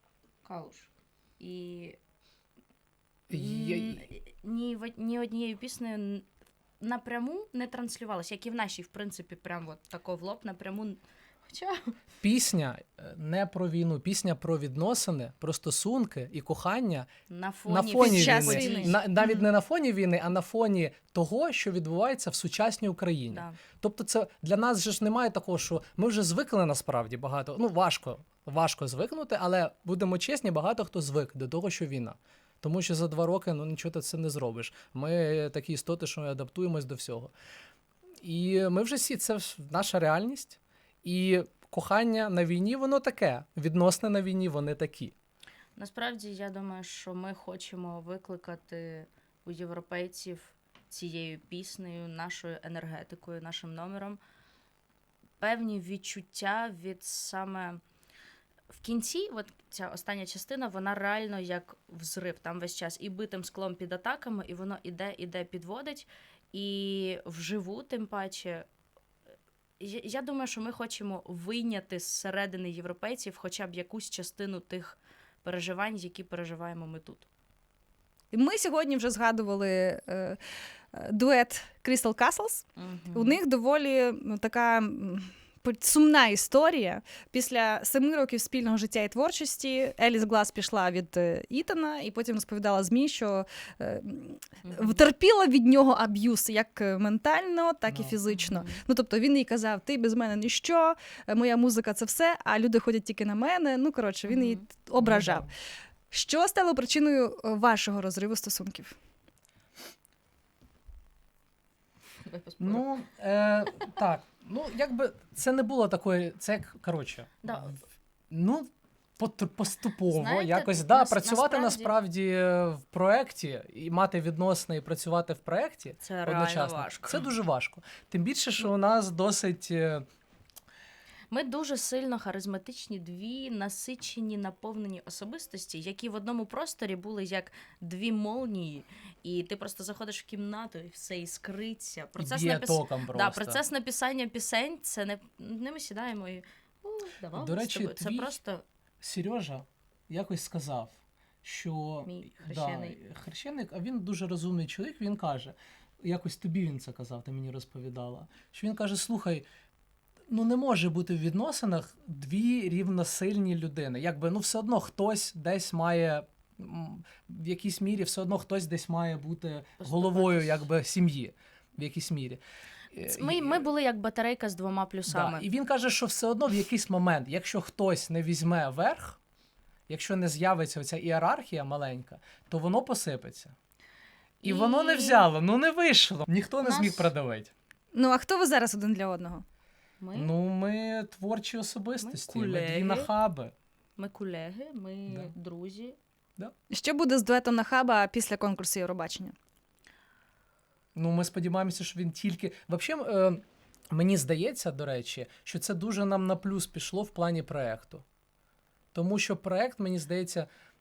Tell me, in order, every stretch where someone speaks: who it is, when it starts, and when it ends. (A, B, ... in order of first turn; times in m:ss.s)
0:00.4-0:02.0 A
0:03.3-0:04.0 B
0:03.3-0:06.2 A
0:06.8-0:11.9 A
0:12.2-0:17.1 B
0:17.3-0:19.4 A
0:17.7-0:37.3 B
0:18.0-0:19.0 C
0:23.3-0:23.6 A
0:38.2-0:45.1 B
0:45.8-0:54.2 A
0:55.4-0:57.8 A
0:58.7-1:08.6 A
1:09.8-1:17.2 A
1:18.3-1:20.4 C
1:20.9-1:45.5 C
1:22.8-1:23.4 A
1:34.6-1:35.0 A
1:37.9-1:38.2 B
1:38.3-1:38.8 A
1:44.3-1:44.6 A
1:45.0-1:45.5 B
1:46.1-1:48.9 C
1:52.2-1:52.9 A
1:52.6-1:57.8 B
1:57.4-1:57.8 A
1:58.3-2:10.0 B
2:00.1-2:01.9 A
2:06.0-2:07.3 A
2:11.3-2:28.6 A
2:22.2-2:23.6 B
2:27.3-2:28.4 B
2:29.0-2:39.4 B
2:32.0-2:33.0 A
2:40.3-2:52.4 B
2:49.8-2:50.7 A
2:52.9-2:53.6 B
2:53.1-2:55.5 A
2:55.1-2:59.2 B
2:59.9-3:03.5 B
3:04.4-3:05.3 A
3:04.4-3:07.5 B
3:06.6-3:07.1 A
3:07.9-3:09.4 C
3:10.0-3:10.3 A
3:10.1-3:13.5 B
3:12.0-3:13.1 A
3:14.0-3:16.0 A
3:16.7-3:19.3 C
3:20.9-3:28.0 B
3:28.9-3:30.5 B